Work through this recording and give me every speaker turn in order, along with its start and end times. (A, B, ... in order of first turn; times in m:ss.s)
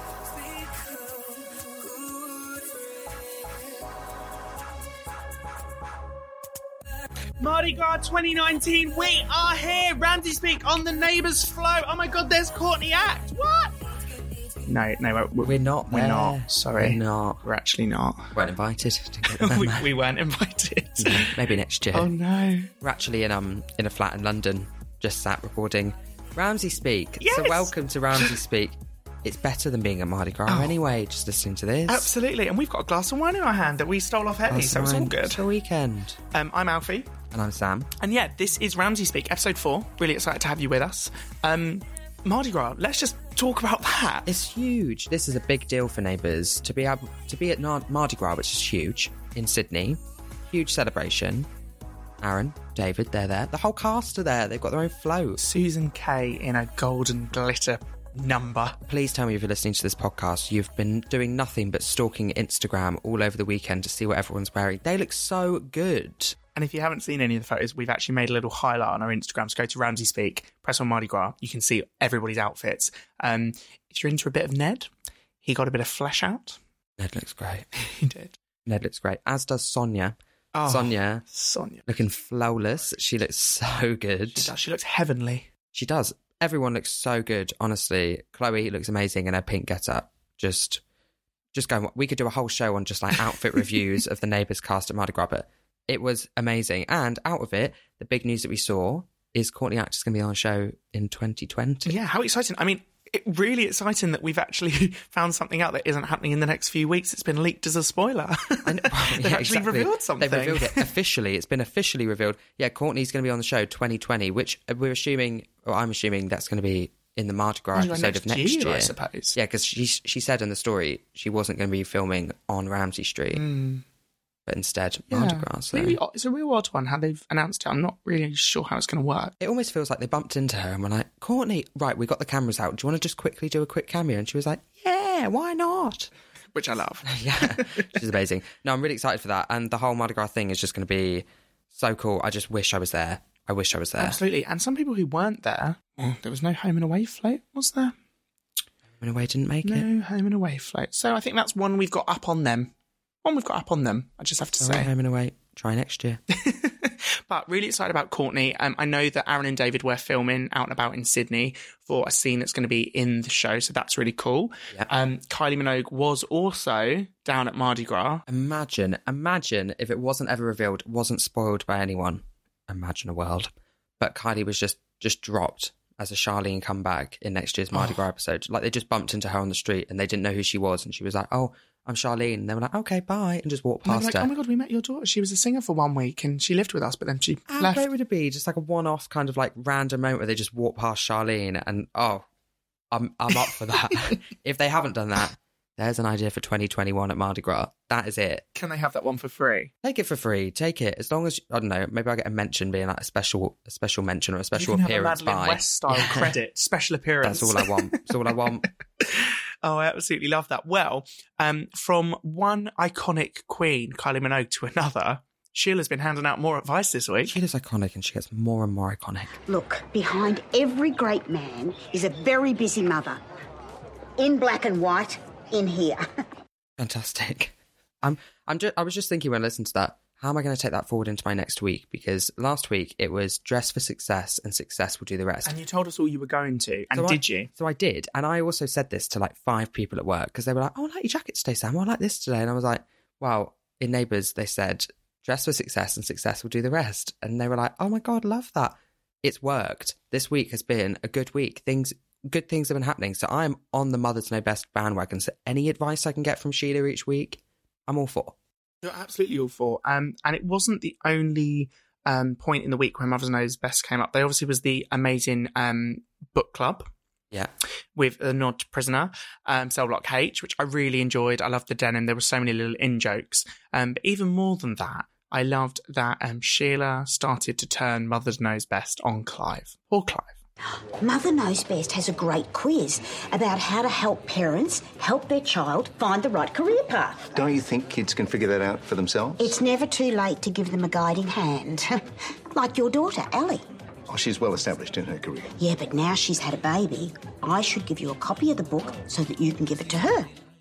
0:07.4-0:13.7 A
0:14.6-0:18.3 A
0:15.4-0:17.4 B
0:18.3-0:19.9 B
0:19.3-0:22.7 A
0:21.0-0:22.1 B
0:22.8-0:32.1 B
0:27.2-0:28.4 A
0:30.5-0:30.8 A
0:31.9-0:35.4 A
0:34.5-0:36.2 B
0:36.3-0:37.1 A
0:37.3-0:37.9 B
0:38.0-0:44.3 A
0:44.2-0:51.5 B
0:52.2-0:55.4 B
0:55.4-0:58.8 A
0:58.8-1:06.4 B
1:06.5-1:14.9 A
1:15.4-1:16.6 A
1:17.0-1:17.7 B
1:17.8-1:18.4 A
1:18.6-1:21.2 B
1:20.5-1:21.8 A
1:21.8-1:24.5 B
1:24.3-1:25.5 A
1:25.7-1:30.8 B
1:31.5-1:41.9 B
1:41.8-1:50.9 A
1:48.6-2:03.4 B
1:57.7-1:59.4 A
2:03.3-2:03.8 A
2:04.4-2:06.0 B
2:05.1-2:09.3 A
2:09.4-2:16.1 B
2:16.5-2:17.9 A
2:17.0-2:24.2 B
2:24.0-2:27.9 A
2:29.0-2:29.9 B
2:29.6-2:32.7 A
2:33.2-2:34.9 A
2:34.6-2:36.2 B
2:36.3-2:48.2 A
2:48.3-3:04.3 B
3:03.8-3:07.9 A
3:07.5-3:12.2 B
3:12.9-3:18.4 B
3:18.5-3:19.7 A
3:19.8-3:26.3 B
3:24.5-3:28.1 A
3:27.2-3:28.7 B
3:29.0-3:37.3 A
3:37.2-3:39.3 B
3:39.5-3:43.2 C
3:44.2-3:46.1 C
3:46.8-3:55.6 B
3:55.4-3:57.5 A
3:56.9-4:18.4 B
4:18.8-4:26.9 A
4:27.9-4:40.3 A
4:41.0-4:47.3 C
4:47.3-4:49.5 D
4:49.4-4:53.6 C
4:54.1-4:55.5 D
4:55.6-5:00.3 C